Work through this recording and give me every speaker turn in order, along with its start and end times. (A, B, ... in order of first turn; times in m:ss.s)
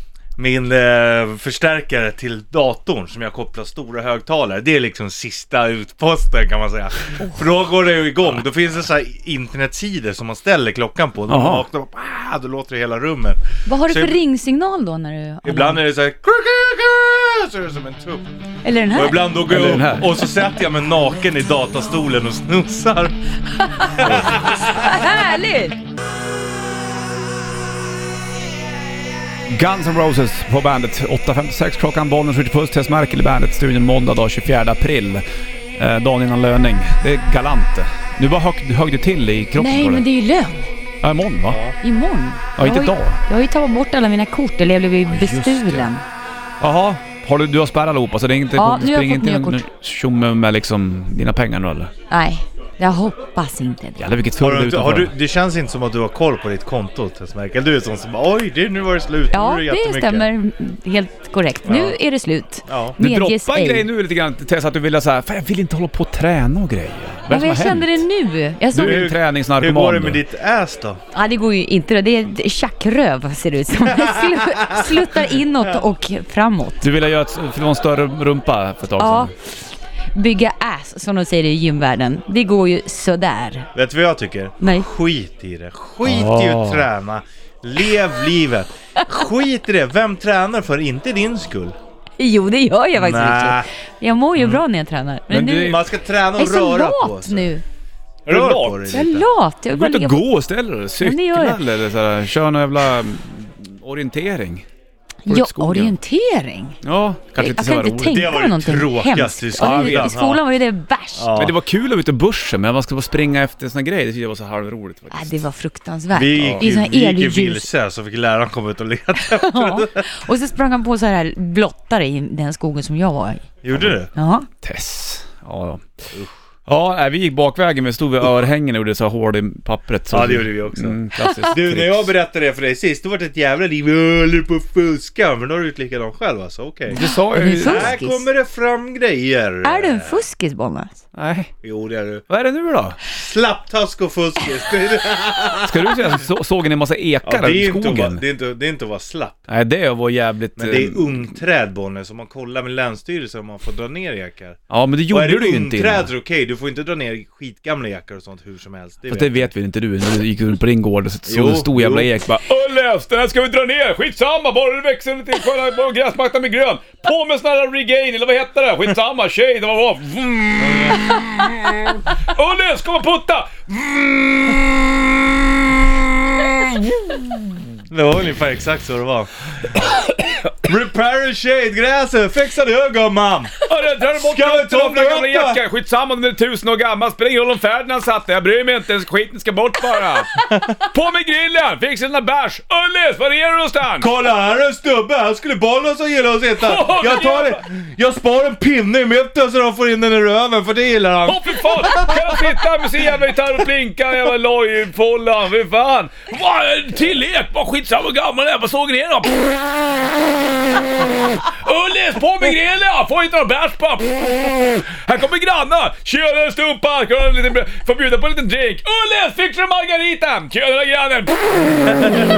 0:00.4-0:14.2 A
0:11.3-0:11.6 B
0:13.7-0:15.8 C
0:15.4-0:18.3 A
0:18.6-0:19.4 C
0:18.9-0:23.2 A
0:19.5-0:20.1 B
0:23.6-0:24.1 C
0:23.9-0:25.1 A
0:24.0-0:24.4 B
0:24.8-0:25.8 C
0:29.5-0:35.2 B
0:35.8-0:40.0 B
0:39.6-0:40.7 C
0:41.0-0:41.6 B
0:41.5-0:41.8 A
0:41.8-0:46.0 C
0:42.6-0:43.2 B
0:45.1-0:45.9 B
0:46.6-0:51.9 B
0:48.6-0:49.6 C
0:52.1-0:54.2 C
0:54.0-0:55.1 B
0:54.4-1:00.3 A
0:59.3-1:03.9 C
1:01.6-1:02.0 A
1:02.7-1:03.0 A
1:03.0-1:08.0 B
1:07.3-1:09.1 C
1:08.7-1:10.2 B
1:08.8-1:11.0 A
1:11.1-1:16.9 C
1:13.9-1:15.1 A
1:16.8-1:19.3 B
1:19.0-1:19.5 C
1:20.2-1:23.7 C
1:23.8-1:31.8 A
1:24.6-1:24.9 C
1:26.0-1:26.9 B
1:32.2-1:35.8 C
1:33.0-1:33.7 A
1:34.4-1:34.6 A
1:35.3-1:35.8 B
1:35.6-1:37.5 A
1:36.4-1:37.6 C
1:38.3-1:38.8 B
1:38.3-1:39.3 A
1:38.9-1:40.3 C
1:39.7-1:44.7 B
1:41.0-1:41.6 C
1:45.2-1:46.8 C
1:45.3-1:45.9 B
1:46.8-1:48.1 B
1:47.4-1:51.3 C
1:48.1-1:50.4 A
1:49.6-1:50.1 B
1:51.2-1:51.6 A
1:51.4-1:55.4 B
1:55.1-1:57.7 C
1:56.1-2:00.1 A
1:56.4-1:56.7 B
1:59.2-2:03.5 C
2:03.6-2:04.1 A
2:03.7-2:04.0 B
2:04.1-2:04.5 C
2:04.6-2:05.9 B
2:06.7-2:12.1 B
2:10.1-2:11.0 A
2:11.2-2:11.5 C
2:11.5-2:17.0 A
2:16.9-2:18.0 B
2:17.0-2:18.2 C
2:17.6-2:20.2 A
2:19.6-2:21.0 C
2:21.2-2:21.5 B
2:21.6-2:22.2 A
2:22.3-2:23.0 B
2:23.1-2:26.2 A
2:25.6-2:28.2 B
2:27.3-2:29.5 A
2:29.5-2:31.3 B
2:30.6-2:39.5 A
2:34.7-2:36.1 B
2:39.1-2:54.8 B
2:41.3-2:42.1 A
2:57.9-2:59.8 A
3:00.6-3:05.6 A
3:03.6-3:14.1 B
3:14.0-3:22.6 A
3:16.6-3:17.6 B
3:21.3-3:29.7 B
3:31.2-3:42.0 B